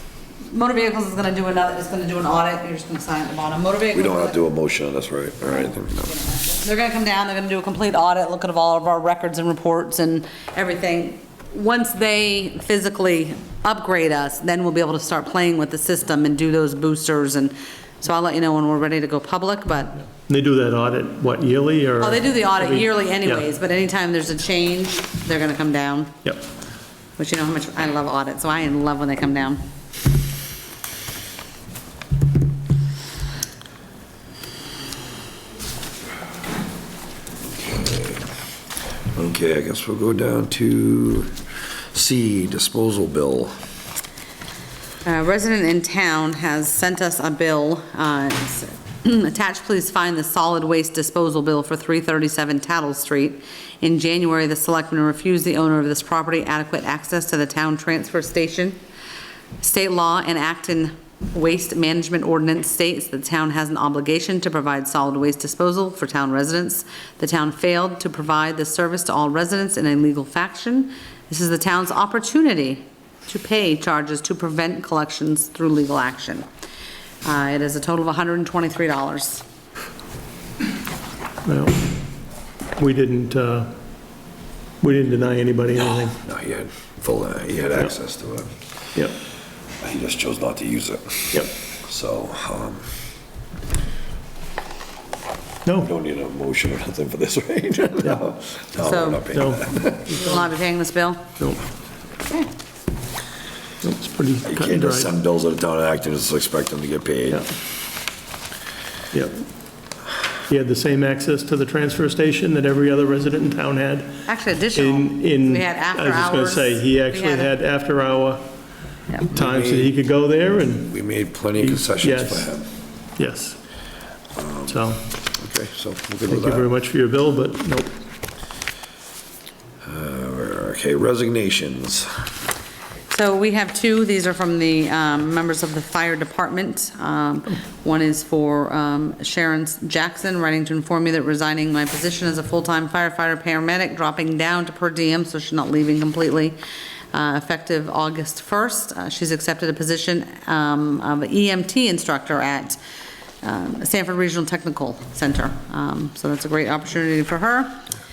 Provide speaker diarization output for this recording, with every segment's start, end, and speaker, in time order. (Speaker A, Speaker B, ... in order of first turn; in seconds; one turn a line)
Speaker A: 0.5-4.4
Speaker B: 3.9-6.1
Speaker A: 6.1-20.0
Speaker C: 20.3-23.4
Speaker A: 22.0-26.1
Speaker A: 27.2-29.6
Speaker B: 37.6-38.2
Speaker B: 39.1-41.3
Speaker B: 41.9-43.5
Speaker A: 45.0-58.8
Speaker A: 59.6-76.5
Speaker A: 77.2-79.4
Speaker C: 81.5-81.9
Speaker C: 82.8-83.7
Speaker C: 84.8-86.2
Speaker B: 86.2-88.5
Speaker B: 89.8-92.8
Speaker C: 95.7-95.9
Speaker B: 95.8-100.2
Speaker A: 98.8-99.3
Speaker C: 99.3-100.4
Speaker A: 100.1-101.3
Speaker C: 103.8-105.1
Speaker B: 104.4-107.4
Speaker C: 109.1-109.4
Speaker C: 110.5-114.2
Speaker A: 114.3-117.5
Speaker C: 114.7-118.4
Speaker C: 119.3-120.9
Speaker B: 119.3-119.9
Speaker B: 120.9-122.7
Speaker C: 121.6-122.5
Speaker C: 123.2-123.6
Speaker B: 124.3-126.7
Speaker C: 124.7-125.0
Speaker C: 126.3-127.9
Speaker B: 129.8-132.2
Speaker A: 133.1-146.6
Speaker A: 147.1-152.8
Speaker A: 153.4-157.8